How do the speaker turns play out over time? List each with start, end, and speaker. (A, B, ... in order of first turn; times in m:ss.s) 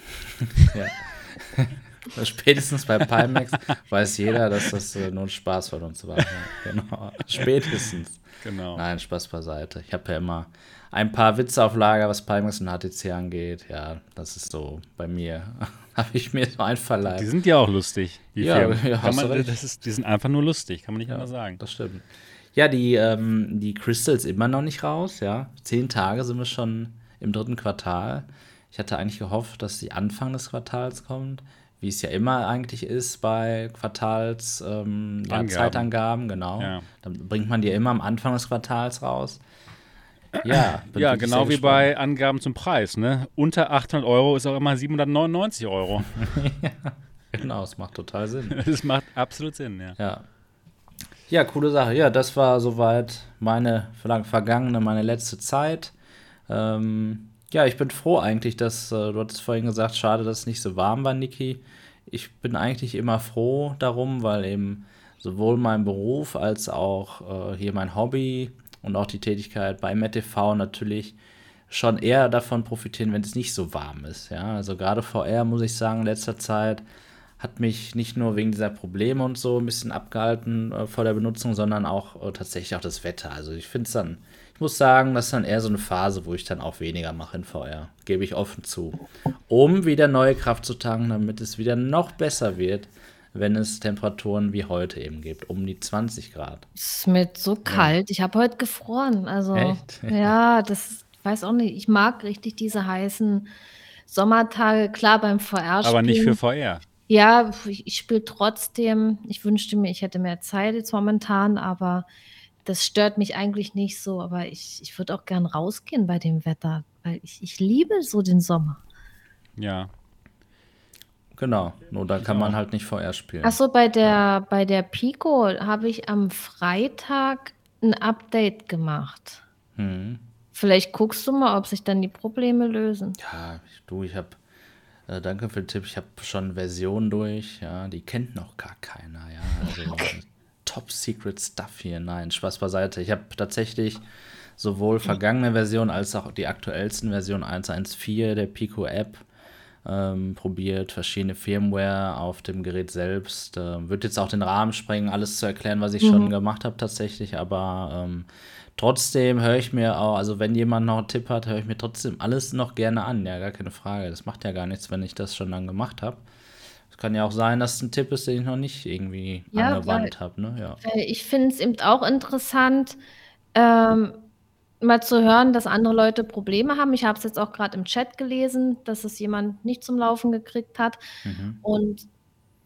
0:00.6-0:08.2 A
0:08.4-0:08.8 B
0:08.7-0:17.3 A
0:17.1-0:21.6 B
0:18.4-0:19.5 A
0:21.1-0:39.4 A
0:35.3-0:35.9 B
0:36.6-0:36.9 B
0:40.4-0:41.9 A
0:40.4-0:46.2 B
0:46.2-0:48.6 A
0:48.5-0:50.0 B
0:50.0-0:50.2 A
0:51.3-0:55.9 A
0:56.5-1:11.2 A
1:11.7-1:16.8 A
1:17.4-1:36.6 A
1:36.8-1:43.5 C
1:37.6-1:38.0 A
1:39.5-1:40.3 A
1:44.1-1:46.4 C
1:45.8-1:46.8 B
1:47.1-1:52.0 C
1:52.6-1:58.8 C
1:59.6-1:59.9 B
2:01.3-2:04.1 A
2:02.2-2:02.6 B
2:03.4-2:09.4 C
2:09.8-2:10.2 A
2:10.5-2:13.2 C
2:13.2-2:14.4 A
2:15.1-2:24.0 A
2:19.6-2:20.1 C
2:24.6-2:29.2 A
2:29.8-2:46.2 A
2:36.0-2:36.3 C
2:46.9-2:50.8 A
2:49.5-2:50.1 C
2:50.8-2:53.0 C
2:53.5-2:54.2 C
2:54.8-3:01.0 C
3:01.2-3:01.6 A
3:01.6-3:02.0 C